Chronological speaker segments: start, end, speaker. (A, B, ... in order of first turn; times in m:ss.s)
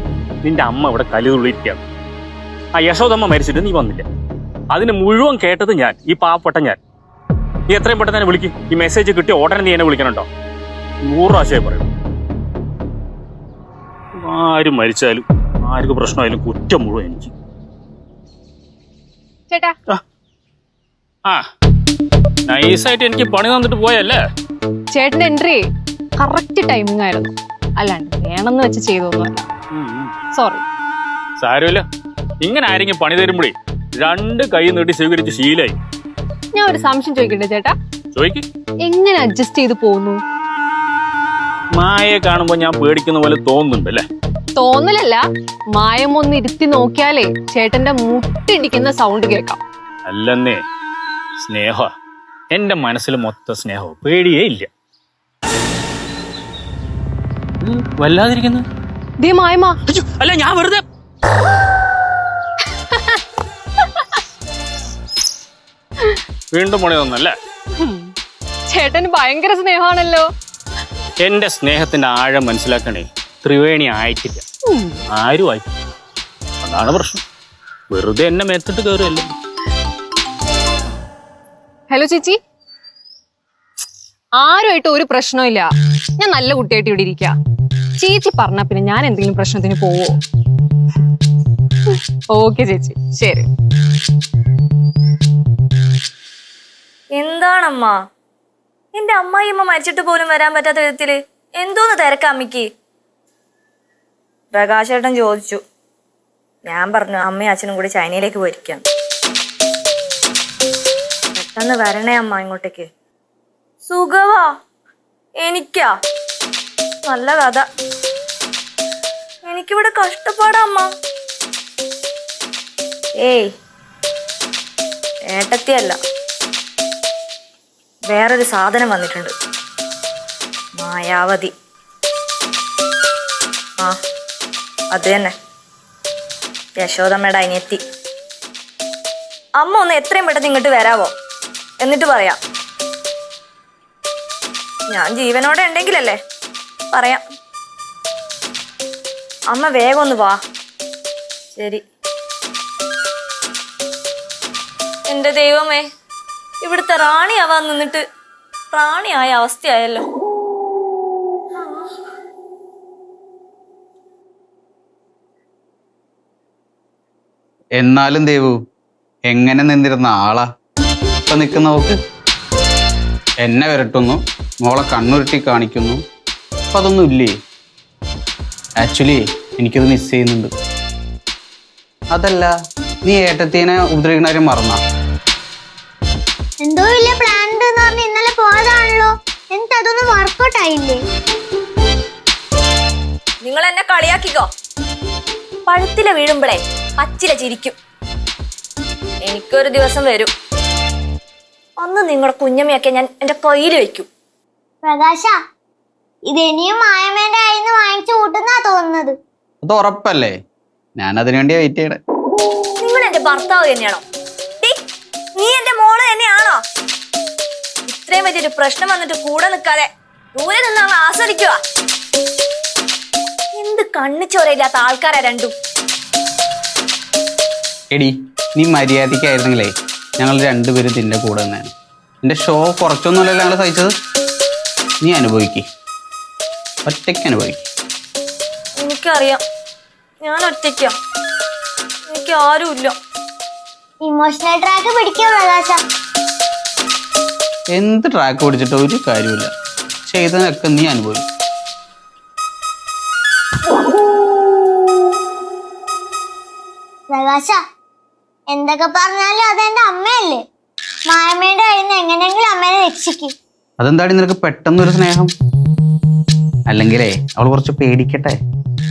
0:00.4-0:01.8 A
0:02.8-0:04.0 A
0:04.7-0:06.8 A
0:07.7-0:10.3 A
0:11.0-0:11.9 A
0:14.2-0:17.3 A
0:19.5-0:19.7 B
0:22.5-0:24.2 A
0:24.9-0:25.6 B
0:26.2-0:29.5 B
0:29.7-0:30.1 A
0:30.4-0:30.6 B
0:31.4-0:31.8 A
0:32.4-0:35.8 A
0:36.6-0:37.7 B
0:38.1-0:38.4 A
0:38.8-0:40.2 B
0:41.7-0:44.0 A
0:44.6-0:45.2 B
0:45.8-0:49.6 B
0:50.1-0:50.6 A
0:51.4-0:51.9 A
0:52.5-0:54.7 A
0:57.6-0:58.6 A
0:59.2-0:59.8 B
0:59.9-1:00.8 A
1:06.5-1:07.3 A
1:07.8-1:08.1 B
1:08.7-1:10.3 B
1:11.2-1:14.4 A
1:14.7-1:15.0 B
1:15.1-1:15.7 A
1:16.6-1:17.2 A
1:17.9-1:19.3 A
1:21.9-1:22.4 B
1:24.4-1:25.6 B
1:26.2-1:27.3 B
1:28.0-1:30.2 B
1:32.4-1:33.5 B
1:37.2-1:37.9 C
1:39.0-1:42.7 C
1:44.5-1:45.6 C
1:46.7-1:48.8 C
1:51.4-1:52.9 C
1:53.9-1:54.5 C
1:55.4-1:55.9 C
1:57.1-1:57.6 C
1:59.5-2:00.9 C
2:03.2-2:03.5 C
2:05.3-2:06.0 C
2:08.1-2:09.3 C
2:10.8-2:11.5 C
2:14.9-2:15.3 C
2:16.8-2:17.8 C
2:19.6-2:21.1 C
2:21.8-2:22.4 C
2:24.9-2:26.2 C
2:26.9-2:27.2 C
2:29.5-2:30.4 C
2:31.6-2:31.8 C
2:35.1-2:35.8 C
2:36.6-2:38.0 C
2:38.7-2:40.0 C
2:41.6-2:41.9 C
2:47.8-2:48.5 D
2:49.3-2:50.5 D
2:51.3-2:52.0 D
2:53.4-2:56.0 D
2:56.7-2:57.3 D
2:58.8-3:00.5 D
3:02.1-3:02.5 D
3:03.1-3:04.8 D
3:06.6-3:11.0 E
3:13.4-3:14.5 C
3:15.7-3:17.8 C
3:19.3-3:20.3 C
3:21.8-3:24.1 C
3:24.8-3:25.3 E
3:26.3-3:29.2 E
3:29.6-3:30.4 D
3:31.0-3:32.0 D
3:32.8-3:34.0 C
3:35.4-3:36.6 C
3:37.9-3:41.6 C
3:43.6-3:45.5 C
3:47.9-3:51.7 D
3:52.2-3:53.9 D
3:55.0-3:55.6 D
3:56.9-3:57.7 D
3:58.8-3:59.4 C
4:00.2-4:00.9 C
4:02.1-4:02.9 C
4:04.0-4:05.8 E
4:07.7-4:09.5 D
4:10.1-4:11.2 D
4:17.1-4:17.6 E
4:18.5-4:20.4 E
4:21.1-4:23.3 E
4:23.8-4:25.3 D
4:26.7-4:28.4 D